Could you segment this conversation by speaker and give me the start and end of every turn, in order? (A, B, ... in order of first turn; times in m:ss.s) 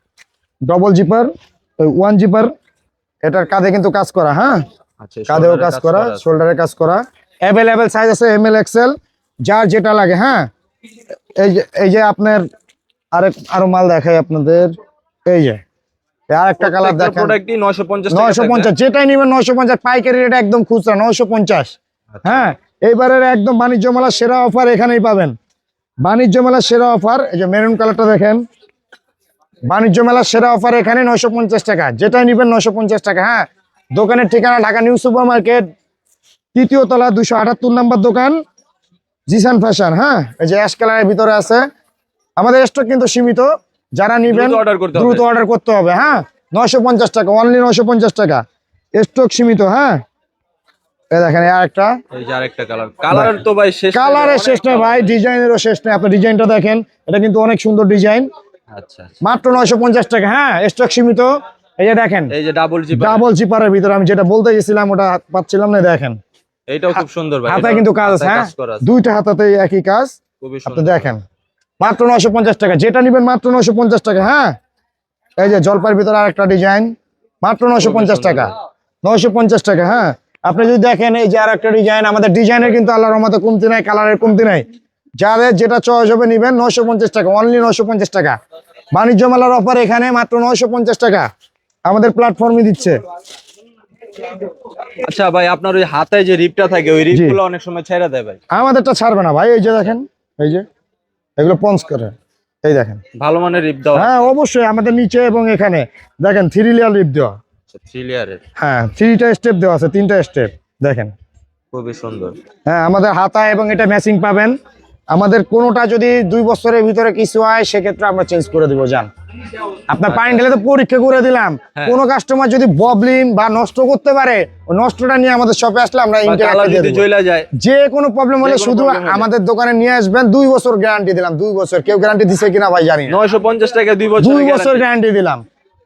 0:00.7-0:02.5 A
0:03.2-0:04.6 A
0:05.0-0:06.2 B
0:05.3-0:10.5 A
0:11.4-0:12.5 A
0:13.1-0:14.7 A
0:15.3-0:15.6 A
0:16.3-0:17.4 A
0:16.6-0:18.7 B
0:18.1-0:25.3 A
0:22.1-0:22.4 B
0:26.0-0:28.4 A
0:29.7-0:35.6 A
0:36.6-0:38.4 A
0:39.3-0:41.6 A
0:42.4-0:48.4 A
0:44.3-0:45.2 B
0:49.0-0:50.0 A
0:51.1-0:51.9 A
0:52.1-0:55.2 B
0:53.9-0:58.3 A
0:58.7-0:59.2 B
0:59.2-1:02.3 A
1:02.3-1:03.3 B
1:02.9-1:06.2 A
1:06.7-1:08.8 B
1:07.5-1:10.1 A
1:10.4-1:11.1 B
1:10.7-1:11.2 A
1:11.8-1:14.6 A
1:15.4-1:18.5 A
1:17.8-1:18.5 B
1:19.0-1:24.6 A
1:25.2-1:28.4 A
1:28.9-1:31.3 A
1:31.9-1:33.0 A
1:35.0-1:38.4 B
1:37.1-1:37.4 A
1:38.5-1:40.6 A
1:41.4-1:42.1 A
1:42.6-1:43.0 A
1:43.2-1:44.3 B
1:44.0-1:47.4 A
1:47.7-1:48.4 B
1:48.6-1:51.1 A
1:51.7-1:52.4 B
1:52.7-1:54.5 A
1:55.1-1:59.1 A
1:59.9-2:07.0 A
2:00.1-2:00.4 B
2:06.2-2:07.5 B
2:07.6-2:13.2 A
2:08.4-2:09.3 B
2:13.1-2:14.8 B
2:14.2-2:15.4 A